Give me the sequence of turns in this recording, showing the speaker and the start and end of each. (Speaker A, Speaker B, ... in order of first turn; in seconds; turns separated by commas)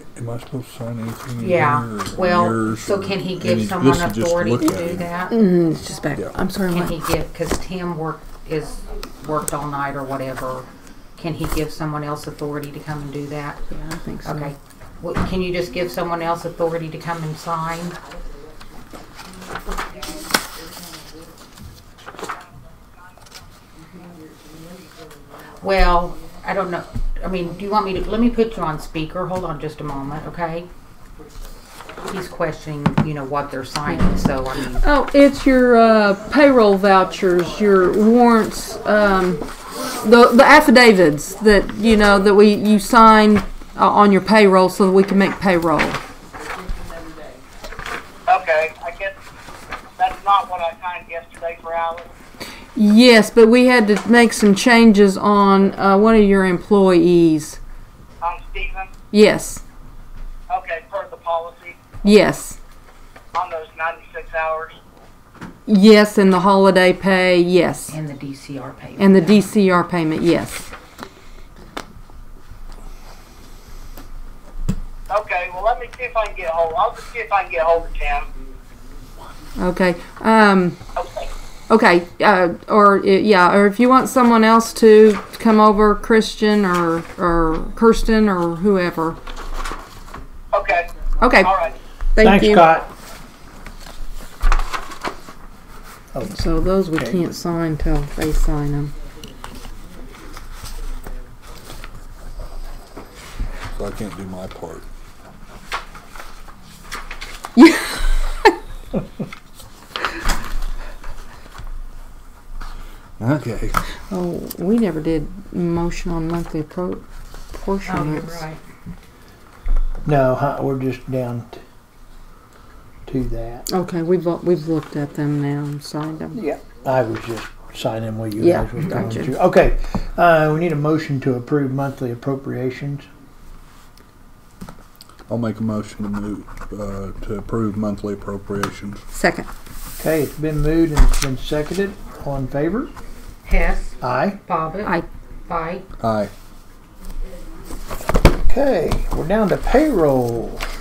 Speaker A: 0.1-5.1, Speaker B: 1.4-5.4, Speaker C: 5.3-7.0, Speaker B: 6.7-13.6, Speaker C: 13.7-14.5, Speaker B: 14.2-18.0, Speaker B: 25.6-30.7, Speaker B: 32.1-34.8, Speaker C: 34.7-46.0, Speaker D: 48.3-49.1, Speaker D: 50.0-52.1, Speaker C: 52.8-57.6, Speaker D: 58.2-58.9, Speaker C: 59.1-59.6, Speaker D: 60.5-61.8, Speaker C: 62.0-62.6, Speaker D: 63.3-64.8, Speaker C: 65.7-67.9, Speaker B: 67.9-69.4, Speaker C: 69.0-70.7, Speaker D: 75.1-78.3, Speaker C: 79.6-80.8, Speaker D: 81.0-81.3, Speaker C: 81.7-89.2, Speaker D: 90.5-90.9, Speaker C: 91.2-91.5, Speaker D: 91.4-91.7, Speaker C: 92.2-92.7, Speaker E: 92.2-92.9, Speaker E: 96.1-96.4, Speaker C: 96.3-98.9, Speaker E: 96.9-97.3, Speaker A: 103.8-104.8, Speaker C: 107.6-108.5, Speaker A: 113.2-113.8, Speaker C: 114.1-118.5, Speaker B: 117.9-118.6, Speaker E: 120.0-121.6, Speaker E: 123.1-123.6, Speaker C: 123.7-126.4, Speaker E: 126.3-133.1, Speaker C: 128.4-129.3, Speaker A: 135.3-139.0, Speaker C: 139.1-139.5, Speaker E: 140.0-142.9, Speaker B: 143.4-144.9, Speaker E: 144.0-144.4, Speaker B: 145.5-145.8, Speaker A: 146.0-146.3, Speaker E: 148.5-150.7